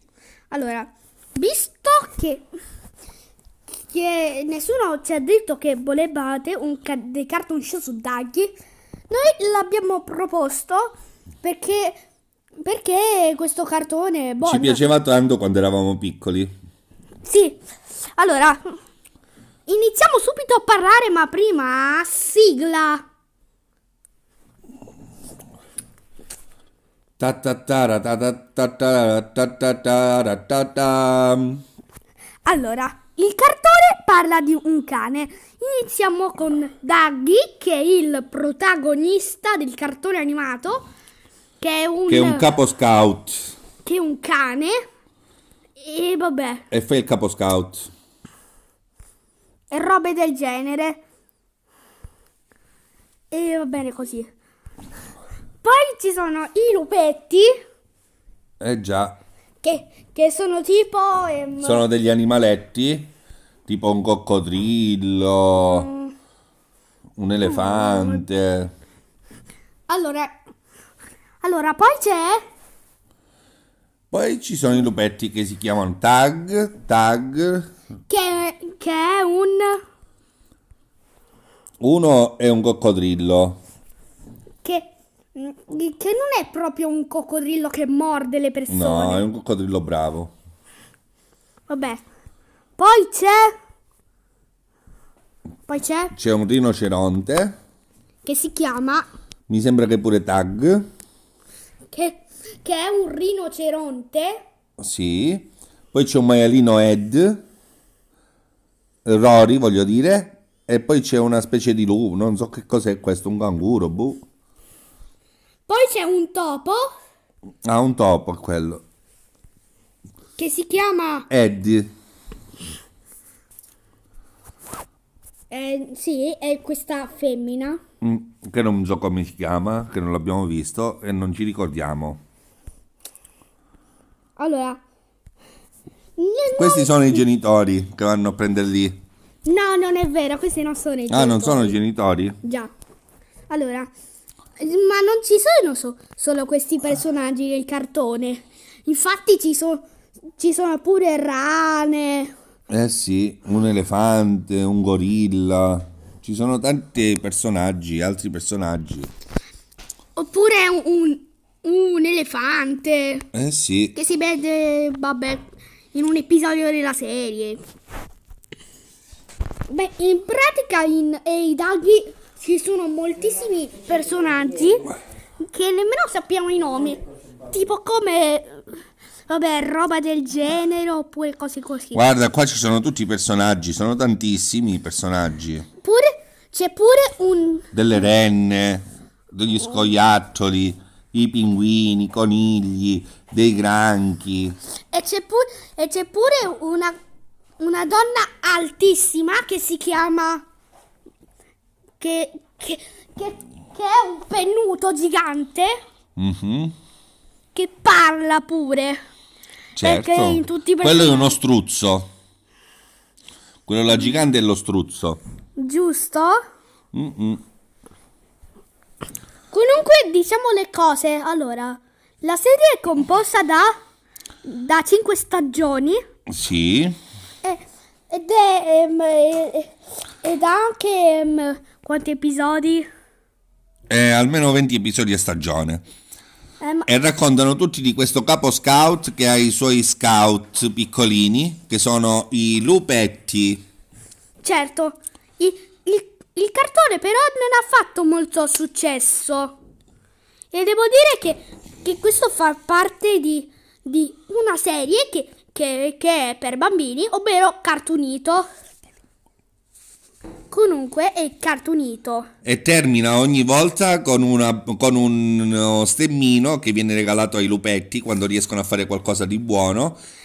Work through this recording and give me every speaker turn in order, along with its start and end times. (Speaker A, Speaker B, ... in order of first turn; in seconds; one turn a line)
Speaker A: 0.5-2.4
Speaker A: 3.8-8.5
Speaker A: 9.1-12.0
Speaker A: 12.6-14.8
Speaker B: 14.4-16.5
Speaker A: 17.2-17.6
Speaker A: 18.1-18.8
Speaker A: 19.6-23.0
Speaker B: 27.2-31.6
Speaker A: 32.4-40.9
Speaker A: 41.6-42.5
Speaker B: 42.1-43.5
Speaker A: 43.8-44.8
Speaker A: 45.8-46.6
Speaker B: 46.7-47.9
Speaker A: 49.7-51.0
Speaker A: 53.3-54.3
Speaker A: 55.6-57.5
Speaker B: 58.6-59.2
Speaker A: 59.6-61.8
Speaker B: 61.6-63.1
Speaker B: 63.7-65.9
Speaker A: 65.6-66.1
Speaker B: 67.2-68.7
Speaker A: 67.4-68.2
Speaker A: 69.9-70.3
Speaker A: 71.4-72.4
Speaker B: 74.1-77.7
Speaker A: 78.1-79.8
Speaker B: 81.8-83.6
Speaker A: 84.6-89.2
Speaker B: 88.7-90.3
Speaker A: 91.7-92.0
Speaker A: 92.8-93.5
Speaker A: 95.7-96.1
Speaker B: 96.1-97.5
Speaker A: 98.2-99.1
Speaker B: 99.5-100.9
Speaker A: 101.9-104.4
Speaker B: 104.8-107.4
Speaker B: 109.0-114.2
Speaker A: 115.7-116.9
Speaker B: 117.6-118.8
Speaker A: 120.4-121.3
Speaker B: 121.3-121.9
Speaker A: 125.5-127.8
Speaker B: 128.0-132.2
Speaker A: 134.3-134.8
Speaker A: 136.2-137.2
Speaker B: 136.6-139.0
Speaker A: 139.4-141.8
Speaker B: 141.1-142.4
Speaker A: 142.4-142.7
Speaker A: 143.5-143.9
Speaker A: 144.6-149.8
Speaker A: 150.4-152.3
Speaker B: 152.7-159.1
Speaker A: 160.1-163.2
Speaker B: 163.3-163.9
Speaker A: 163.9-167.6
Speaker A: 169.7-178.7
Speaker A: 179.3-182.0
Speaker B: 181.9-185.7
Speaker A: 185.8-187.7
Speaker B: 187.7-194.6
Speaker A: 194.9-196.9
Speaker A: 197.6-200.4
Speaker A: 202.0-205.8
Speaker B: 206.2-206.7
Speaker A: 207.5-209.0
Speaker B: 209.8-212.1
Speaker A: 209.8-211.4
Speaker B: 213.7-215.2
Speaker A: 215.6-216.4
Speaker B: 216.9-217.4
Speaker A: 219.5-223.7
Speaker A: 224.4-226.0
Speaker B: 226.3-227.0
Speaker A: 227.4-229.7
Speaker A: 230.2-232.9
Speaker B: 233.9-235.8
Speaker A: 236.6-236.9
Speaker B: 236.9-243.6
Speaker A: 244.4-249.6
Speaker A: 250.5-258.5
Speaker A: 260.5-262.3
Speaker B: 262.4-270.0